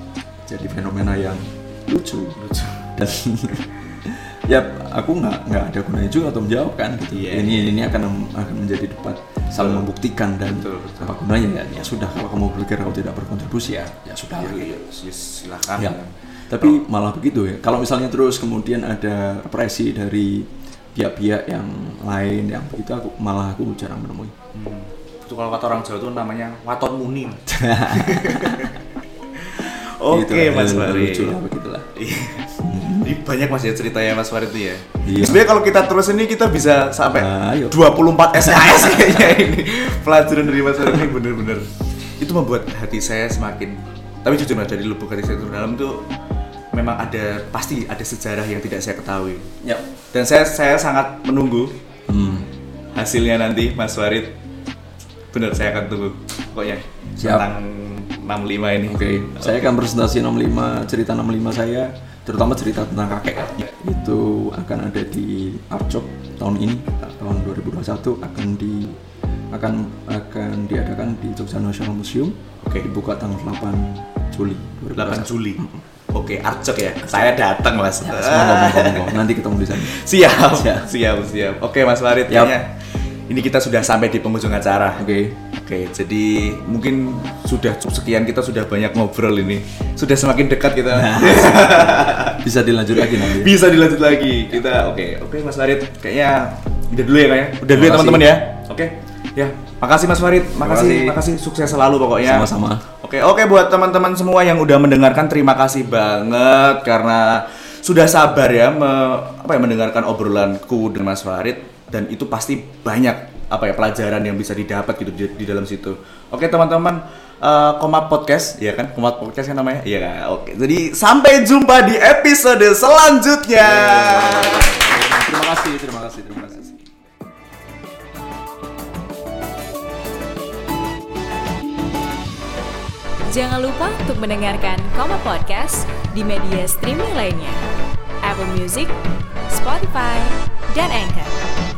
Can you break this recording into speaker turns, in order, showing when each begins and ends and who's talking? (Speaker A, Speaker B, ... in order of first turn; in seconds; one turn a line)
Speaker A: 0.5-14.8
Speaker B: 2.4-3.0
Speaker B: 7.1-7.7
Speaker B: 9.6-9.9
Speaker B: 10.5-11.2
Speaker B: 14.3-16.8
Speaker A: 15.8-24.4
Speaker B: 24.5-28.8
Speaker A: 27.5-28.7
Speaker B: 29.3-31.4
Speaker A: 30.1-31.9
Speaker B: 31.9-46.0
Speaker A: 32.6-33.2
Speaker A: 35.0-35.5
Speaker A: 37.1-39.3
Speaker B: 46.7-49.5
Speaker B: 50.1-51.8
Speaker A: 52.1-52.5
Speaker B: 53.0-54.4
Speaker B: 55.3-59.5
Speaker A: 57.2-57.5
Speaker A: 58.9-69.0
Speaker A: 69.5-75.8
Speaker B: 72.6-72.9
Speaker B: 75.0-124.8
Speaker A: 78.0-80.9
Speaker A: 82.3-82.5
Speaker A: 85.0-85.4
Speaker A: 90.9-93.6
Speaker A: 97.7-98.4
Speaker A: 100.6-101.2
Speaker A: 102.2-102.8
Speaker A: 123.6-126.9
Speaker C: 133.2-137.6
Speaker C: 138.2-138.9
Speaker C: 139.5-141.4